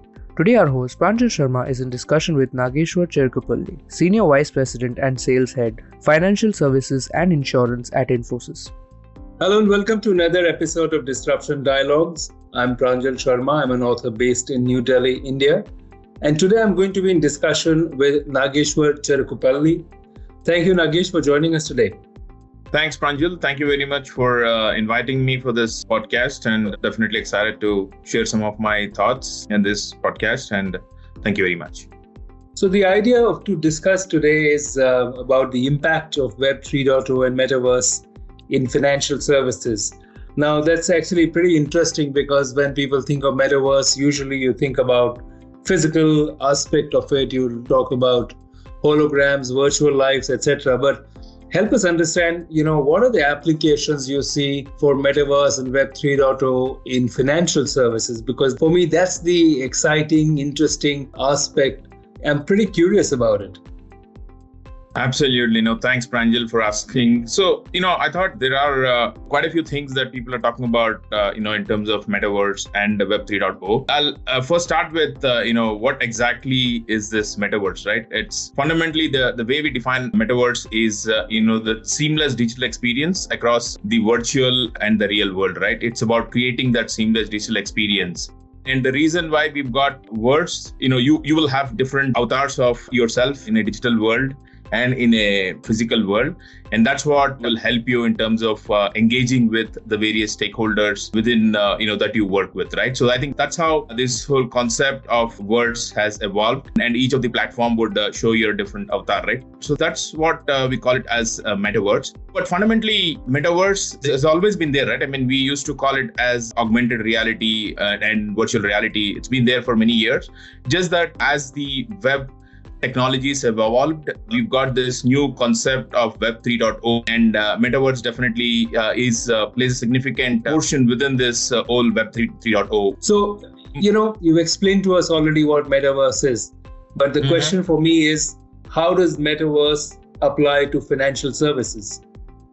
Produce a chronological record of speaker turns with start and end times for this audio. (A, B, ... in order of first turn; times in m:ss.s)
0:00.4-0:08.7 A
0:09.4-0:15.7 B
0:16.2-0:19.9 B
0:20.4-0:22.0 B
0:22.7-0:31.9 C
0:32.6-1:03.6 B
1:05.0-2:02.3 C
2:02.8-2:13.0 C
2:13.0-2:22.0 B
2:17.3-2:17.5 C